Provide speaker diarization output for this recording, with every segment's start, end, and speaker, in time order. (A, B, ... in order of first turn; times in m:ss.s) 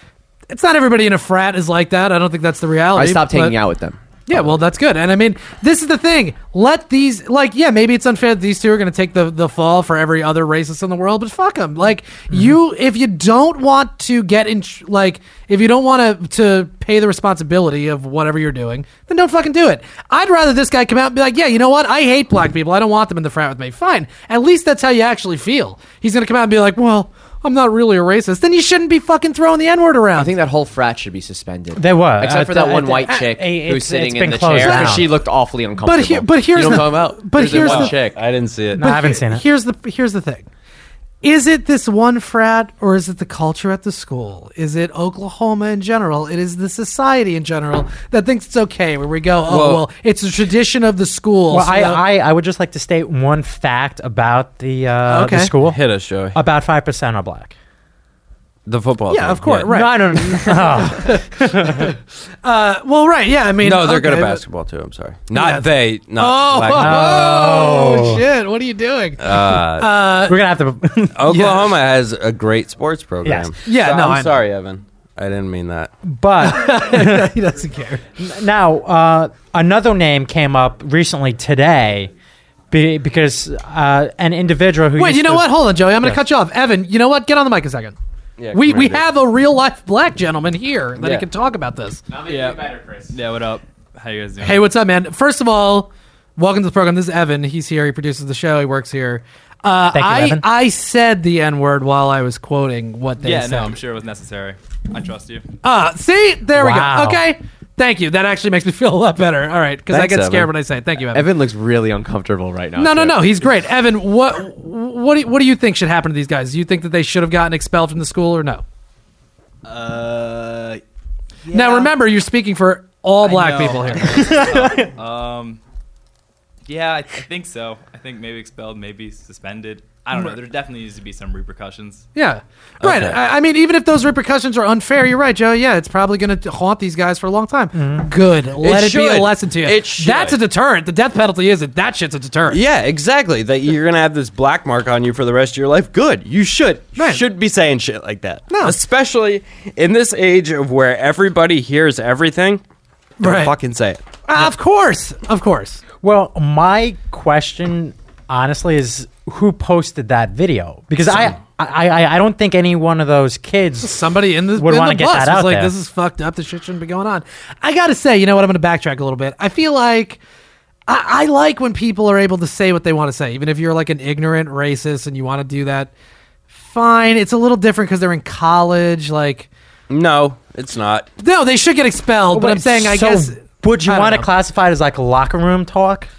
0:00.5-0:03.5 A
0:02.9-0:04.0 B
0:04.3-0:30.3 A
0:30.2-0:38.2 B
0:31.8-0:35.2 C
0:34.6-0:35.0 A
0:35.8-0:38.0 A
0:37.5-0:38.9 D
0:38.8-0:39.4 C
0:38.8-0:40.5 A
0:41.2-0:52.0 A
0:49.5-0:49.9 D
0:51.5-0:55.8 C
0:55.1-0:55.5 A
0:55.6-0:56.4 D
0:56.3-0:57.6 C
0:58.7-0:59.8 D
0:59.1-1:04.4 A
0:59.7-1:01.9 C
1:03.6-1:07.4 D
1:05.3-1:10.4 A
1:06.8-1:08.2 C
1:09.2-1:09.9 D
1:10.2-1:11.2 C
1:11.2-1:16.0 D
1:11.3-1:11.7 A
1:13.2-1:13.5 C
1:13.6-1:14.4 A
1:16.0-1:17.3 C
1:16.4-1:18.0 A
1:18.2-1:22.1 C
1:22.7-1:26.2 C
1:25.0-1:28.0 A
1:28.4-1:29.0 D
1:28.5-1:32.0 A
1:31.0-1:31.3 D
1:32.1-1:34.6 E
1:34.4-1:43.8 A
1:39.9-1:40.4 C
1:43.2-1:45.4 E
1:45.6-1:51.3 A
1:46.6-1:47.2 C
1:49.9-1:50.5 D
1:51.1-1:53.5 B
1:52.8-1:58.6 A
1:59.7-2:00.8 E
2:01.5-2:01.9 E
2:01.5-2:04.3 A
2:03.2-2:05.6 E
2:04.2-2:04.9 C
2:06.7-2:12.1 E
2:12.2-2:22.6 A
2:12.8-2:13.2 D
2:17.8-2:18.1 C
2:18.6-2:20.4 D
2:22.5-2:32.6 D
2:27.0-2:27.2 A
2:28.5-2:28.8 A
2:33.2-2:33.5 A
2:33.2-2:34.0 D
2:34.3-2:35.8 A
2:36.0-2:44.0 C
2:43.8-2:50.2 A
2:44.5-2:45.7 C
2:50.9-2:55.9 A
2:56.5-2:59.5 A
2:59.9-3:01.1 D
3:01.2-3:04.3 A
3:02.3-3:06.1 C